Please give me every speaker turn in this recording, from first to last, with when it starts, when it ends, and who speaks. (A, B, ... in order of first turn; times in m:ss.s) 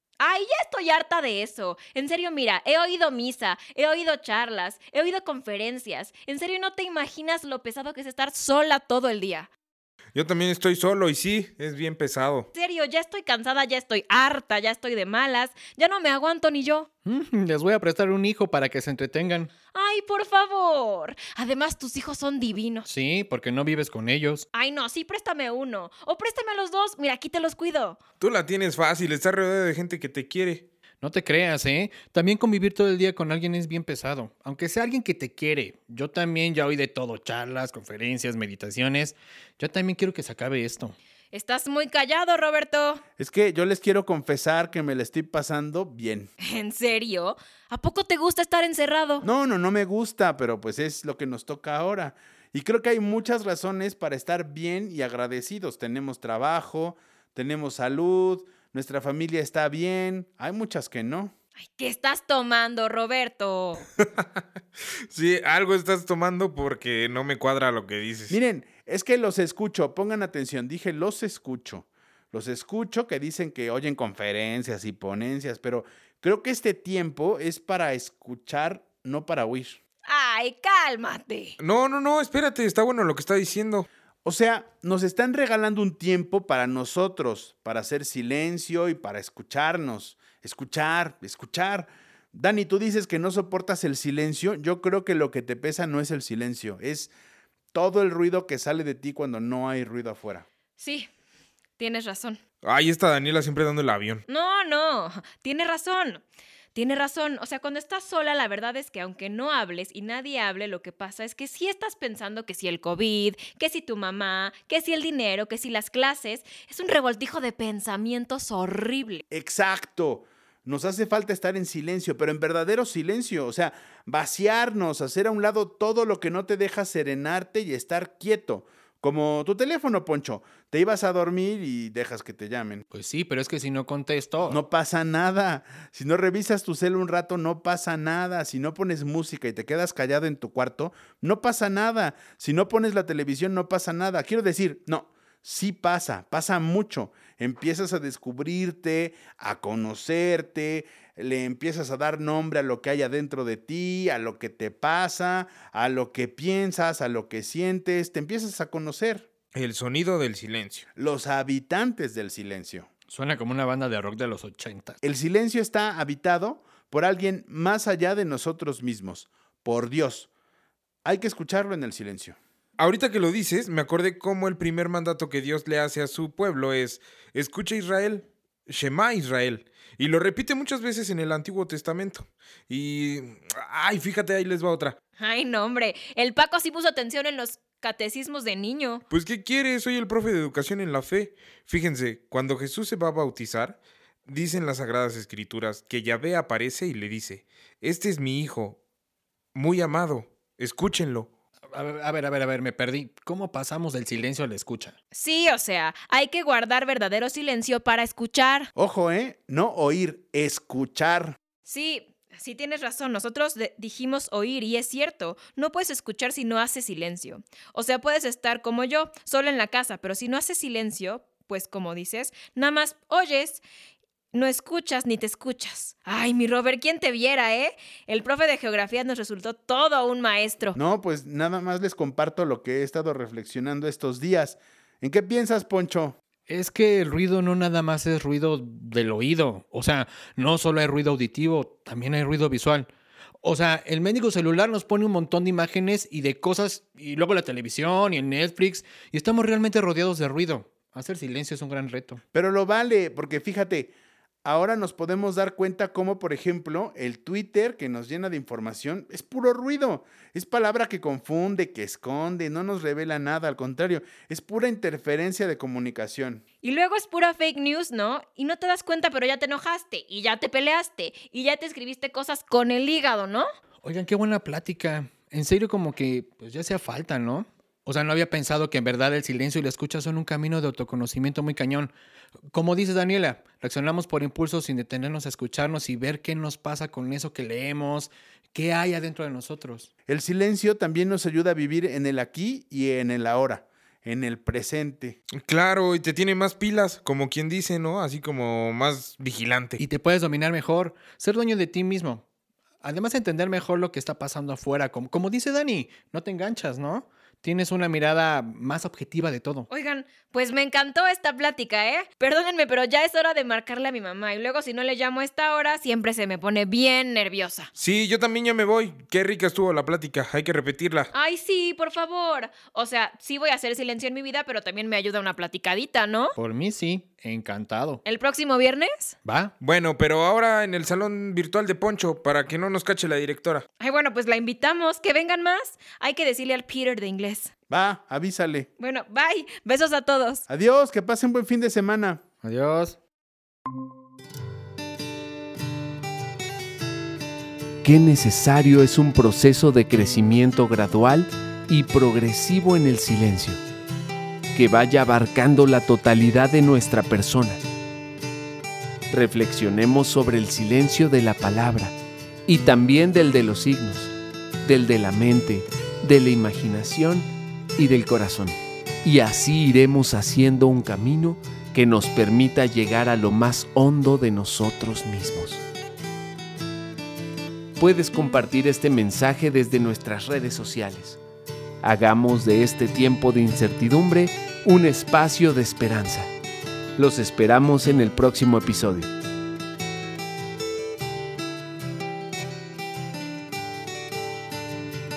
0:00.2-0:09.5 A
0:10.1-0:12.5 B
0:12.5-0:16.9 A
0:17.0-0:19.5 C
0:19.7-0:22.9 A
0:22.9-0:24.5 C
0:24.5-0:28.0 A
0:28.2-0:30.7 B
0:31.0-0:41.0 C
0:41.3-0:43.0 A
0:43.2-0:46.3 D
0:46.4-0:49.2 A
0:49.2-1:01.3 D
1:01.6-1:03.8 A
1:04.0-1:04.2 B
1:05.1-1:08.4 B
1:08.3-1:19.8 D
1:20.1-1:21.6 A
1:21.6-1:23.9 B
1:24.2-1:37.1 D
1:37.7-1:40.5 D
1:40.8-1:41.1 A
1:41.8-1:42.4 A
1:42.6-1:44.2 B
1:44.3-1:46.2 A
1:46.7-1:59.2 A
1:59.3-2:12.8 D
2:12.9-2:14.6 C
2:14.5-2:39.3 D
2:39.5-2:40.9 B
2:41.0-2:42.9 D
2:43.1-2:45.0 C
2:45.0-2:50.3 D
2:51.0-2:52.4 D
2:52.8-3:05.0 B
3:05.2-3:09.0 A
3:09.1-3:18.8 B
3:19.6-3:21.3 B
3:21.7-3:25.0 C
3:25.1-3:28.7 A
3:28.8-3:31.4 D
3:31.6-3:43.6 A
3:44.3-3:50.8 A
3:50.8-3:56.2 D
3:56.5-4:02.9 C
4:03.4-4:12.2 C
4:12.3-4:13.9 D
4:14.4-4:26.4 D
4:26.6-4:33.5 A
4:33.8-4:41.9 C
4:42.5-4:49.9 C
4:50.1-4:55.2 D
4:55.4-4:59.8 B
4:59.8-5:02.2 C
5:02.8-5:09.7 C
5:09.7-5:17.7 A
5:17.8-5:21.1 B
5:21.1-5:26.4 A
5:26.4-5:28.0 C
5:28.0-5:29.2 A
5:29.2-5:29.5 C
5:29.6-5:33.7 B
5:33.8-5:37.5 A
5:37.7-5:38.7 D
5:38.8-5:40.4 A
5:40.5-5:42.2 D
5:42.4-5:43.0 C
5:47.8-5:53.6 E
5:54.5-5:57.6 E
5:59.1-6:02.0 E
6:02.5-6:04.1 E
6:04.6-6:15.6 E
6:17.8-6:21.2 E
6:21.8-6:26.3 E
6:27.0-6:29.1 E